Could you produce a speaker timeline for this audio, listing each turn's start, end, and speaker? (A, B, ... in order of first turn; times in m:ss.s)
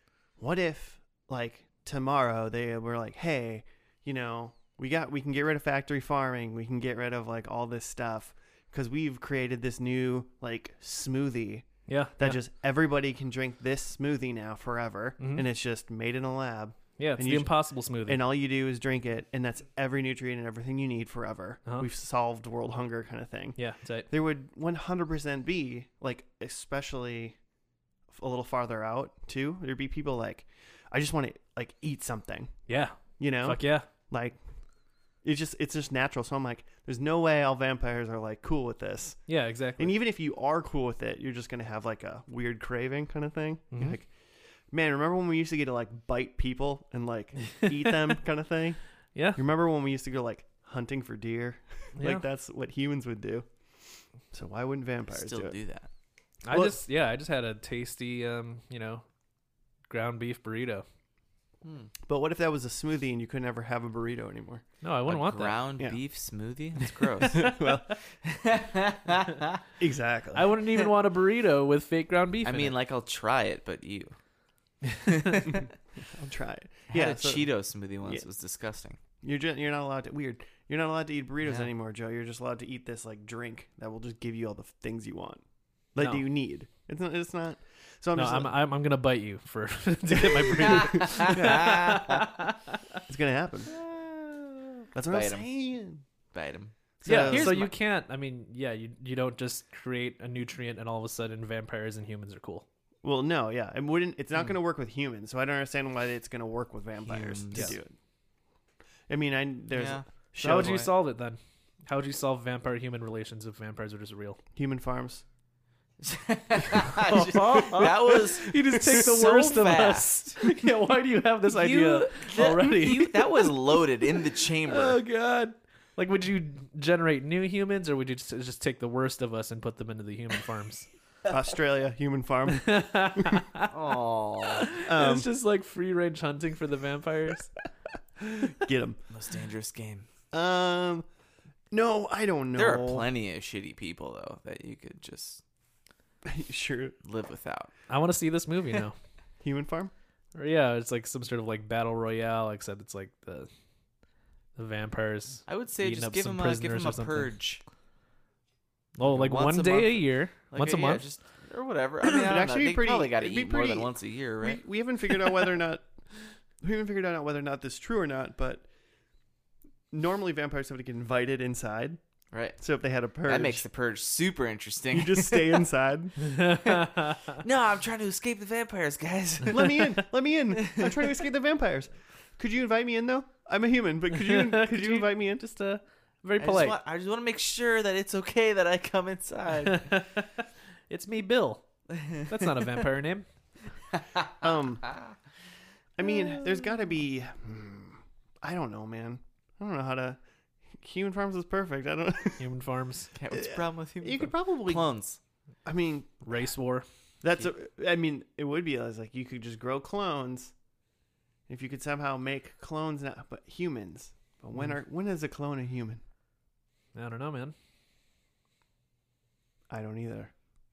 0:00.4-0:27.4 A
0:11.9-0:12.4 B
0:15.2-0:15.5 B
0:17.0-0:18.2 B
0:23.6-0:24.1 B
0:28.1-0:32.5 A
0:32.7-0:33.9 B
0:33.2-0:34.4 A
0:35.2-0:44.1 A
0:39.3-0:40.0 B
0:43.7-0:44.0 B
0:44.7-0:48.8 A
0:49.2-0:49.4 B
0:49.4-0:53.5 A
0:52.0-0:52.2 B
0:54.3-0:55.6 A
0:55.1-0:55.9 C
0:56.5-0:59.0 B
0:56.5-0:56.8 A
0:59.9-1:00.8 B
1:01.6-1:01.9 C
1:02.0-1:04.6 A
1:04.8-1:05.6 B
1:05.1-1:07.7 C
1:07.3-1:08.0 A
1:08.2-1:09.6 C
1:09.8-1:10.6 A
1:10.3-1:12.7 B
1:12.4-1:14.2 C
1:15.0-1:15.7 C
1:16.0-1:17.5 A
1:16.9-1:19.0 C
1:19.2-1:25.4 A
1:21.4-1:21.7 C
1:26.0-1:28.6 A
1:26.0-1:26.2 B
1:28.2-1:33.0 B
1:30.6-1:32.3 C
1:33.1-1:33.8 A
1:33.7-1:35.5 C
1:34.9-1:36.0 A
1:36.3-1:37.7 C
1:37.0-1:37.6 A
1:37.0-1:42.6 B
1:43.0-1:48.0 A
1:47.0-1:47.8 C
1:49.1-1:50.9 A
1:49.7-1:50.1 C
1:50.4-1:54.4 B
1:54.6-1:55.2 A
1:56.0-2:00.4 C
1:57.0-2:03.5 B
1:57.1-1:59.0 A
2:01.5-2:05.0 C
2:04.7-2:10.9 B
2:11.3-2:13.4 A
2:12.6-2:13.7 B
2:13.7-2:14.7 C
2:14.6-2:17.5 B
2:14.8-2:15.3 A
2:18.4-2:19.0 A
2:19.1-2:20.1 C
2:20.3-2:21.1 A
2:21.7-2:23.1 A
2:22.5-2:25.4 C
2:26.2-2:27.0 A
2:27.0-2:27.7 C
2:27.9-2:29.0 B
2:29.4-2:29.9 A
2:30.4-2:33.5 B
2:34.6-2:37.3 B
2:35.5-2:37.6 C
2:39.0-2:41.1 B
2:39.0-2:44.6 C
2:42.0-2:45.9 A
2:46.6-2:48.7 A
2:49.9-2:52.0 A
2:52.3-2:52.6 C
2:52.6-2:53.7 A
2:53.3-2:55.6 C
2:54.9-2:56.4 A
2:56.4-2:57.1 B
2:56.6-3:00.0 C
2:59.5-3:05.4 A
3:00.5-3:01.2 C
3:04.2-3:06.8 B
3:06.4-3:10.0 C
3:09.6-3:13.3 B
3:11.9-3:12.8 C
3:13.9-3:15.2 C
3:14.4-3:14.9 A
3:16.0-3:20.2 A
3:20.7-3:22.5 A
3:22.4-3:23.1 B
3:23.2-3:25.2 C
3:23.3-3:24.9 A
3:25.6-3:26.2 A
3:26.2-3:26.9 B
3:27.2-3:30.5 A
3:31.5-3:36.0 A
3:37.0-3:37.5 B
3:39.7-3:40.3 A